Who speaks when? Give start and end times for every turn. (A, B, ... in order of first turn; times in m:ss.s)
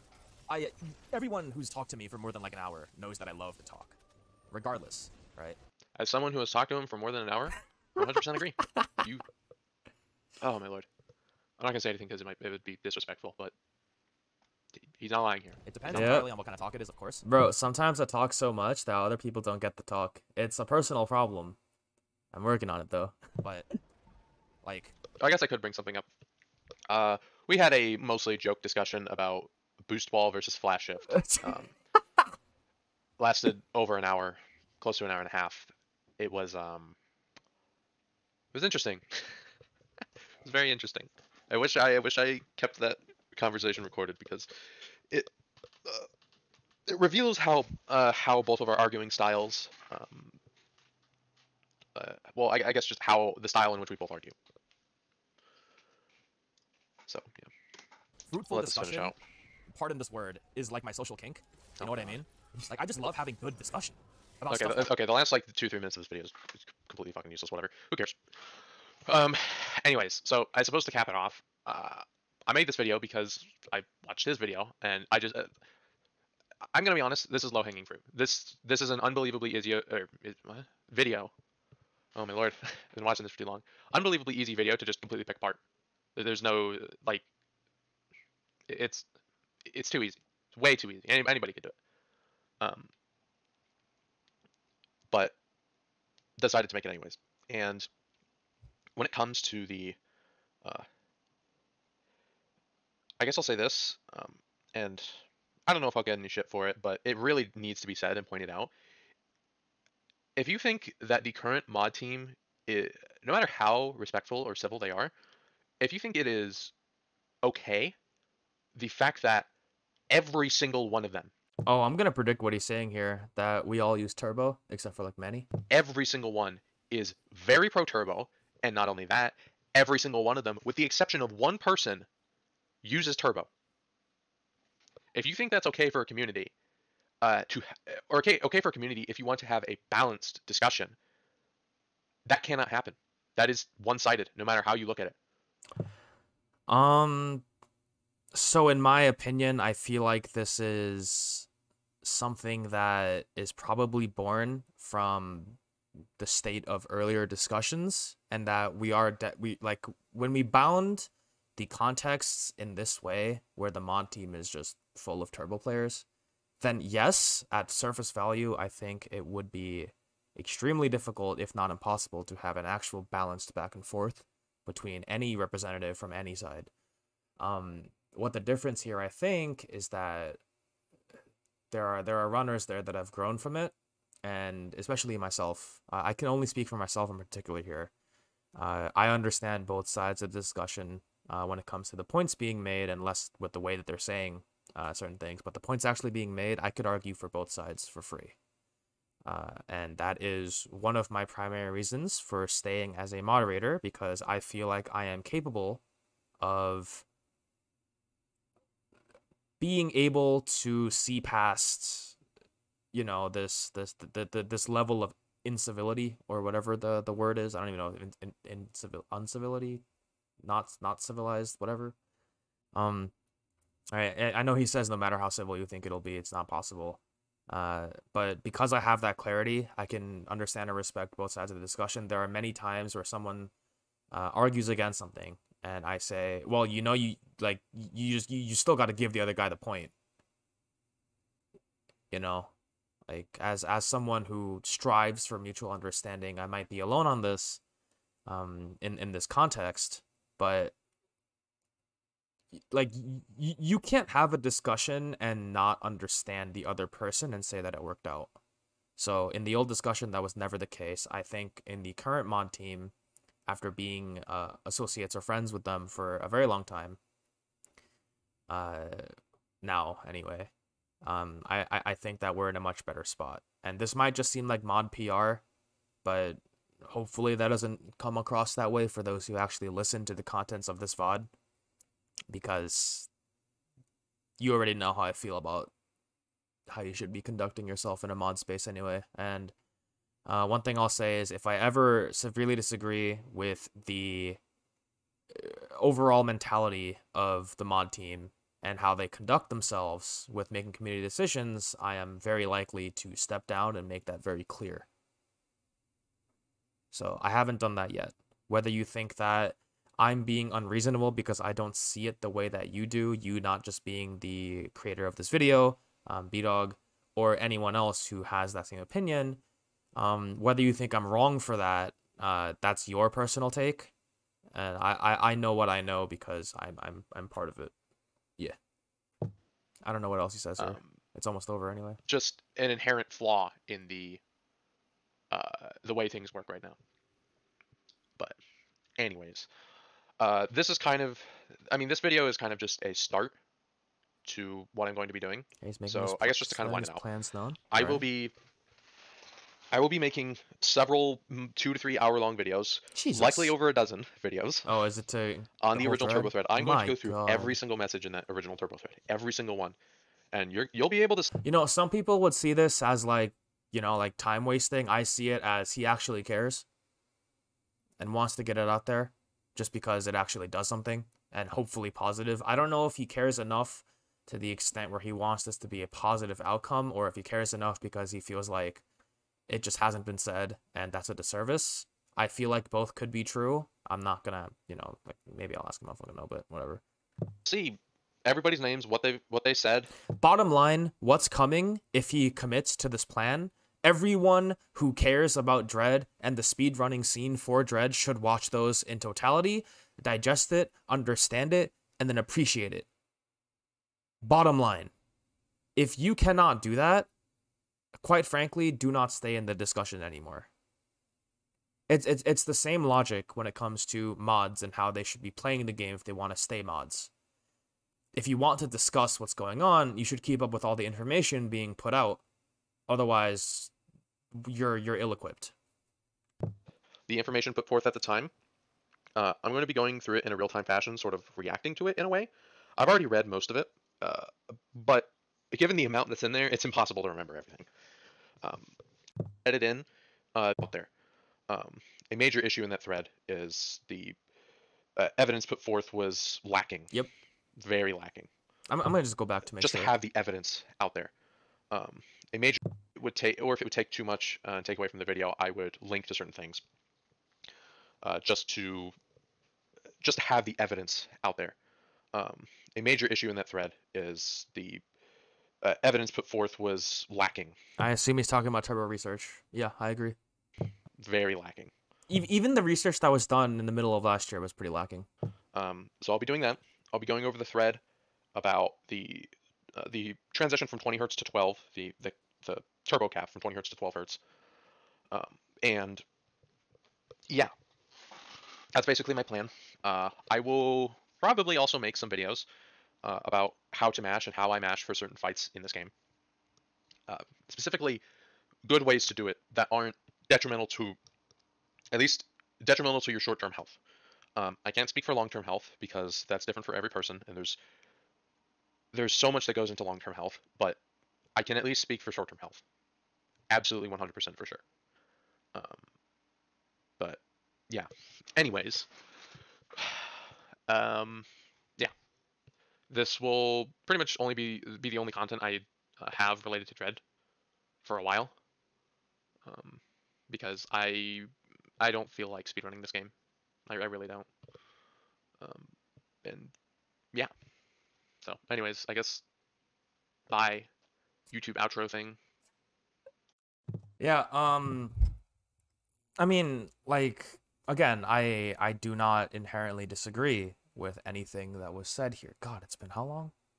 0:00.5-0:04.0 A
0:04.5-0:05.6 A
0:06.0-0:09.2 B
0:10.4-0:10.9 B
0:11.6-0:13.5 B
0:14.9-0:16.2 B
0:15.7-0:17.2 A
0:15.9-0:16.3 C
0:17.2-0:21.6 C
0:22.3-0:23.3 C
0:24.6-0:25.0 A
0:25.2-0:26.1 B
0:26.9-0:31.7 B
0:31.1-0:31.6 C
0:33.2-0:37.0 B
0:38.5-0:39.4 B
0:40.4-0:44.5 B
0:46.9-0:50.4 B
0:52.0-0:54.4 B
0:57.1-0:57.5 B
0:58.3-0:59.1 A
0:58.5-0:59.2 B
0:59.7-1:04.9 A
1:01.8-1:02.2 B
1:04.5-1:08.5 B
1:09.1-1:15.5 B
1:16.7-1:21.3 B
1:22.2-1:25.6 B
1:26.2-1:27.2 B
1:28.7-1:29.1 B
1:29.6-1:31.8 B
1:32.6-1:32.9 B
1:36.4-1:37.9 B
1:39.0-1:40.0 B
1:43.2-1:48.7 B
1:50.4-1:55.1 B
1:55.8-1:56.7 B
1:57.4-1:58.0 B
1:58.8-1:59.5 B
2:00.1-2:01.3 B
2:01.7-2:05.5 C
2:05.7-2:12.1 B
2:12.8-2:13.5 B
2:15.1-2:16.5 B
2:17.2-2:21.0 B
2:22.3-2:25.2 B
2:26.7-2:27.4 C
2:28.3-2:31.5 C
2:32.0-2:35.6 C
2:36.2-2:46.1 C
2:46.6-2:56.7 C
2:57.4-3:00.4 C
3:01.7-3:07.9 C
3:08.6-3:18.4 C
3:19.2-3:25.8 C
3:26.4-3:27.1 C
3:29.6-3:32.2 C
3:32.9-3:39.8 C
3:40.4-3:42.0 C
3:42.7-3:43.1 C
3:43.9-3:53.5 C
3:54.1-3:59.9 C
4:02.1-4:02.5 C
4:03.1-4:07.6 C
4:08.3-4:10.7 C
4:12.7-4:18.3 C
4:19.0-4:22.9 C
4:23.5-4:27.0 C
4:28.5-4:30.5 C
4:31.0-4:35.4 C
4:36.0-4:41.3 C
4:42.3-4:43.1 C
4:44.4-4:45.7 C
4:46.7-4:49.5 C
4:50.3-4:54.4 C
4:55.3-5:04.9 C
5:06.9-5:19.4 C
5:20.0-5:23.9 C
5:24.5-5:27.7 C
5:29.8-5:32.0 C
5:30.6-5:30.9 B
5:32.1-5:34.2 B
5:35.3-5:36.8 B
5:39.0-5:39.5 B
5:40.2-5:43.4 B
5:44.2-5:47.0 B
5:45.6-5:48.1 C
5:47.7-5:48.3 B
5:49.7-5:54.7 B
5:52.9-5:53.5 C
5:54.6-5:57.6 C
5:55.6-5:59.8 B
6:00.3-6:01.3 B
6:01.4-6:06.6 C
6:08.0-6:18.8 C
6:19.5-6:26.8 C
6:27.4-6:29.9 B
6:30.1-6:42.9 C
6:44.2-6:44.9 C
6:45.8-6:47.1 C
6:48.0-6:50.5 C
6:51.9-6:57.1 C
6:58.1-7:02.2 C
7:02.9-7:03.7 C
7:04.3-7:05.5 C
7:07.1-7:08.3 B
7:09.2-7:17.7 B
7:18.4-7:18.7 B
7:19.4-7:20.9 B
7:21.5-7:24.2 B
7:25.0-7:26.9 B
7:27.6-7:28.3 B
7:28.7-7:29.9 C
7:29.6-7:31.1 B
7:31.7-7:36.6 B
7:38.0-7:39.0 B
7:40.0-7:41.6 B
7:42.1-7:44.8 B
7:45.6-7:47.6 B
7:47.8-7:50.2 C
7:51.0-7:51.7 B
7:52.1-7:55.1 C
7:55.5-7:57.8 B
7:58.4-8:04.2 B
8:05.1-8:06.0 B
8:07.3-8:07.5 B
8:08.7-8:12.5 B
8:13.0-8:15.9 B
8:17.1-8:18.0 B
8:18.6-8:21.0 B
8:21.9-8:23.8 B
8:24.4-8:27.6 B
8:28.9-8:30.8 B
8:31.4-8:32.6 B
8:33.5-8:34.6 B
8:35.5-8:35.8 B
8:37.0-8:38.9 B
8:39.8-8:41.9 B
8:42.9-8:47.0 B
8:47.8-8:48.3 B
8:49.4-8:53.1 B
8:53.7-8:54.3 B
8:55.4-8:55.7 B
8:56.2-8:56.5 B
8:58.2-8:59.2 B
9:00.3-9:00.7 B
9:01.3-9:02.2 B
9:04.0-9:05.2 C
9:06.2-9:13.3 C